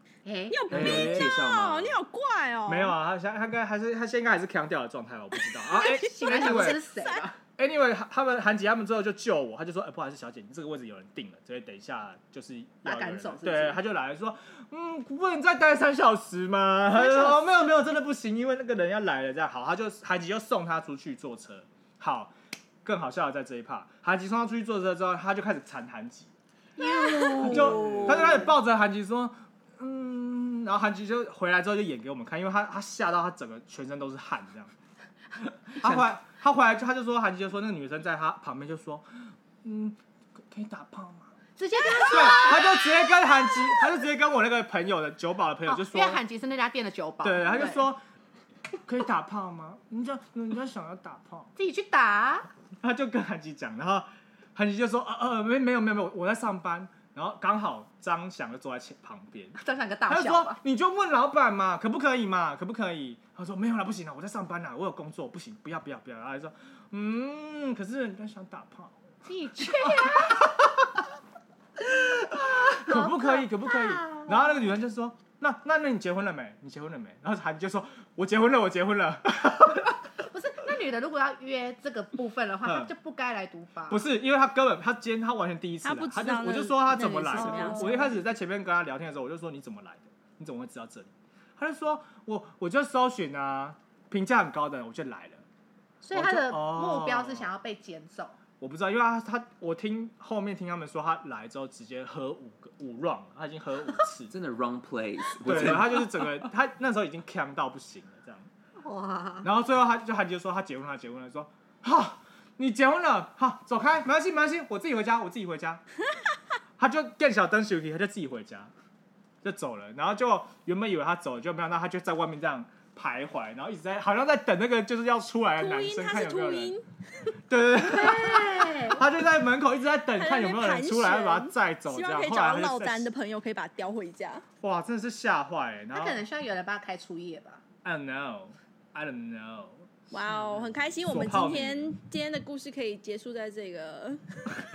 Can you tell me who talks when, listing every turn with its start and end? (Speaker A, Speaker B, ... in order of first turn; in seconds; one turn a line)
Speaker A: 0.2-0.6
Speaker B: 0.5-3.0
Speaker C: 0.7-1.3
Speaker D: 0.7-2.0
Speaker C: 2.7-6.8
Speaker B: 5.7-7.2
Speaker A: 5.9-7.4
Speaker C: 7.6-22.3
Speaker A: 12.8-13.8
Speaker A: 16.9-17.6
Speaker C: 22.8-26.3
Speaker A: 26.8-28.0
Speaker D: 27.3-28.5
Speaker C: 27.4-34.7
Speaker D: 35.7-36.1
Speaker C: 35.8-40.0
Speaker C: 40.5-41.3
Speaker A: 41.6-42.9
Speaker C: 42.0-46.2
Speaker A: 45.6-47.9
Speaker C: 47.2-48.0
Speaker C: 48.8-51.5
Speaker A: 51.5-52.5
Speaker C: 52.8-59.6
Speaker A: 59.6-60.6
Speaker C: 60.1-69.0
Speaker A: 69.2-70.5
Speaker C: 69.6-71.0
Speaker C: 72.1-80.0
Speaker A: 72.2-74.5
Speaker A: 80.2-84.0
Speaker C: 82.6-82.9
Speaker C: 83.9-95.4
Speaker B: 85.8-88.1
Speaker A: 87.0-88.1
Speaker A: 96.0-98.3
Speaker C: 96.1-97.5
Speaker C: 98.6-104.3
Speaker D: 104.3-106.5
Speaker C: 105.4-108.5
Speaker A: 108.8-109.5
Speaker C: 109.4-115.8
Speaker C: 116.8-118.7
Speaker C: 119.4-126.7
Speaker B: 125.6-127.3
Speaker C: 127.5-133.1
Speaker A: 127.9-129.0
Speaker B: 128.0-128.5
Speaker B: 130.2-134.4
Speaker C: 134.6-136.2
Speaker A: 135.9-137.6
Speaker C: 137.8-139.9
Speaker B: 140.1-144.6
Speaker D: 140.3-140.6
Speaker C: 141.0-141.9